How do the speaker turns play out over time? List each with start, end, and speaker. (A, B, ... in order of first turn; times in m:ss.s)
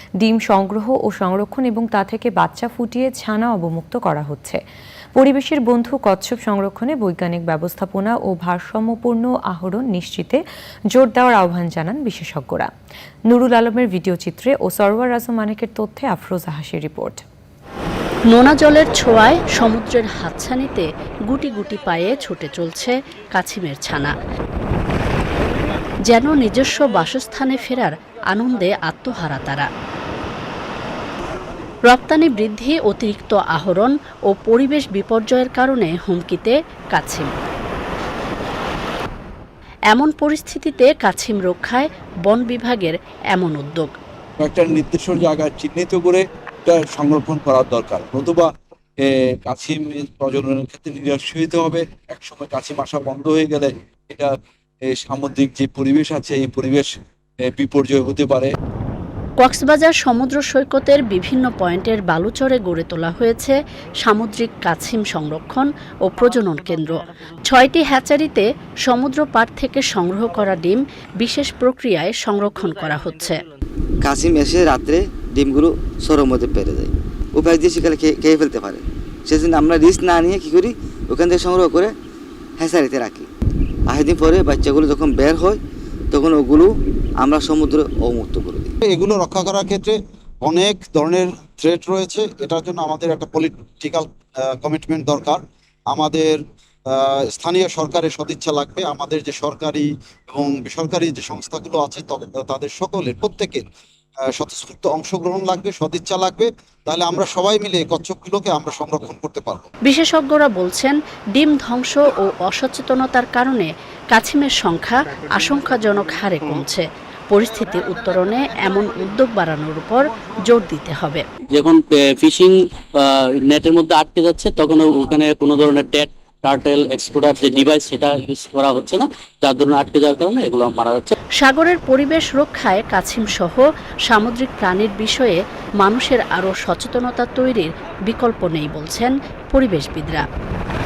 0:00.2-0:04.6 A
0:05.2-0:10.4 A
0:10.9-0:12.7 A
0:13.3-0:17.2 A
0:18.3-0:24.1 B
0:26.0-0:29.7 B
0:31.8-0:37.4 B
0:39.9-0:43.9 B
0:44.4-0:54.3 C
0:54.9-0:58.5 C
0:59.4-1:13.4 B
1:14.0-1:21.9 D
1:22.6-1:23.3 D
1:23.9-1:25.6 D
1:26.1-1:28.7 D
1:28.8-1:43.6 E
1:44.3-1:49.7 E
1:49.8-2:01.2 B
2:01.5-2:11.1 F
2:11.4-2:20.2 B